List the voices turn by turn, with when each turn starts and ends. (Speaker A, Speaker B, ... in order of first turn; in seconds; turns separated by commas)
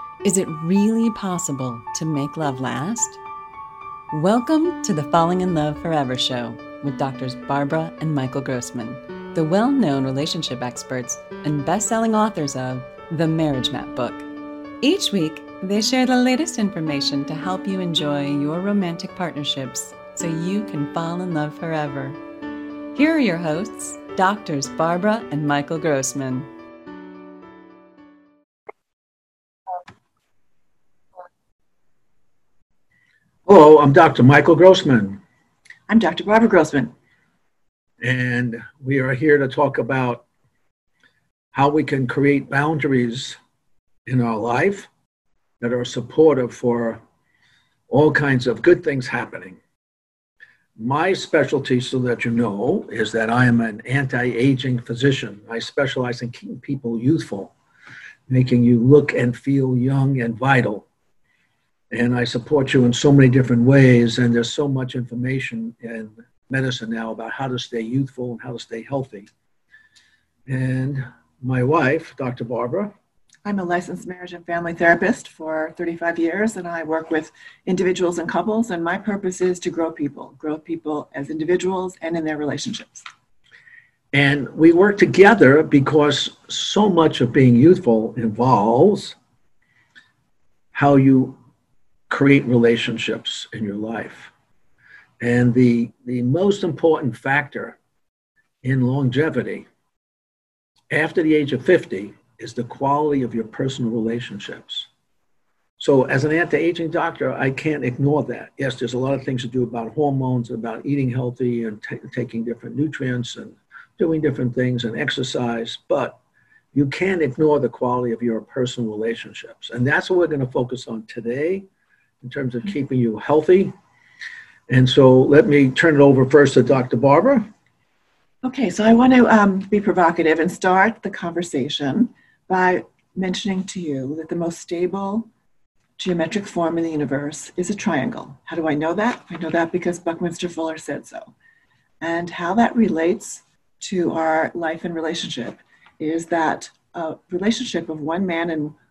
Speaker A: 0.2-3.2, Speaker A: 4.1-14.3, Speaker A: 14.8-22.2, Speaker A: 22.9-26.5, Speaker B: 33.5-35.2, Speaker C: 35.9-36.9, Speaker B: 38.0-40.2, Speaker B: 41.5-43.4, Speaker B: 44.1-44.9, Speaker B: 45.6-47.0, Speaker B: 47.9-49.6, Speaker B: 50.8-57.5, Speaker B: 58.3-60.9, Speaker B: 61.9-69.3, Speaker B: 70.5-72.9, Speaker C: 73.5-83.0, Speaker B: 84.1-89.2, Speaker B: 90.7-91.4, Speaker B: 92.1-94.3, Speaker B: 95.2-97.8, Speaker B: 98.6-99.7, Speaker B: 100.9-104.9, Speaker B: 105.8-116.2, Speaker B: 116.7-121.7, Speaker B: 122.2-123.7, Speaker B: 124.7-127.5, Speaker C: 128.4-135.3, Speaker C: 136.0-141.3, Speaker C: 142.0-148.8